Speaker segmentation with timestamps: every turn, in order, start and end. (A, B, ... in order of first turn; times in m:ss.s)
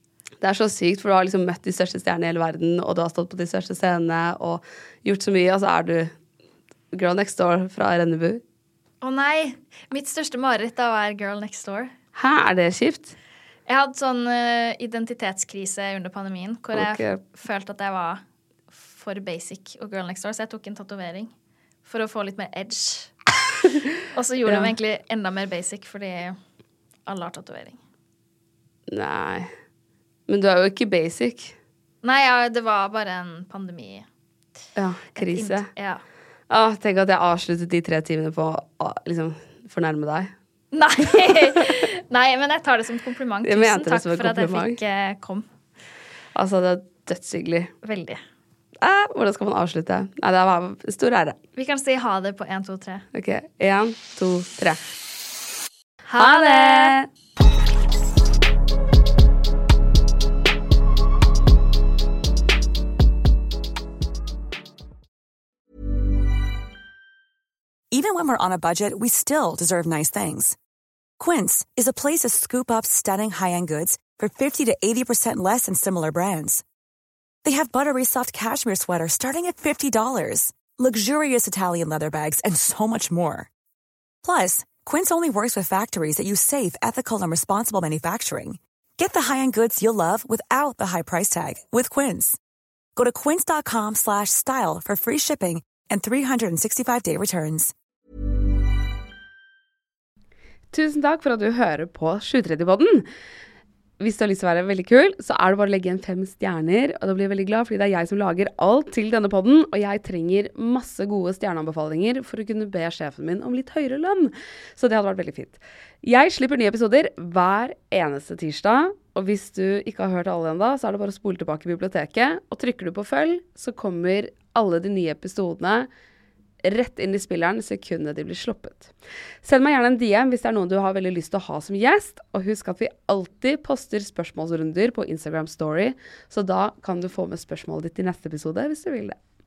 0:00.4-0:06.1 A
0:06.9-0:08.4 A
0:09.0-0:11.9 B
0:12.2-0:13.1 A
0:13.7-0:18.2 B
0:16.7-0:17.2 A
0:18.7-0:21.3 B
0:21.8-0:23.1 B
0:24.1-0:26.4 B
0:24.4-0:24.7 A
0:27.0-0:27.8 B
0:28.9-0:29.5 A
0:30.3-0:31.5 A
0:32.0-0:34.0 B
0:34.8-0:35.7 A
0:35.2-0:36.0 B
0:36.5-0:40.3 A
0:40.7-0:45.4 B
0:43.4-0:44.8 A
0:46.3-0:47.7 A
0:47.8-0:48.2 B
0:48.8-0:51.4 A
0:51.5-0:53.1 B
0:53.1-0:54.8 A
0:56.1-0:57.0 B
0:56.2-0:57.1 A
1:07.9-1:10.6 C
1:11.2-1:16.6 C
1:17.4-1:23.5 C
1:24.2-1:32.4 C
1:33.0-1:37.7 C
1:40.7-1:43.0 A
1:44.0-2:05.9 A
2:06.6-2:08.9 A
2:09.4-2:19.2 A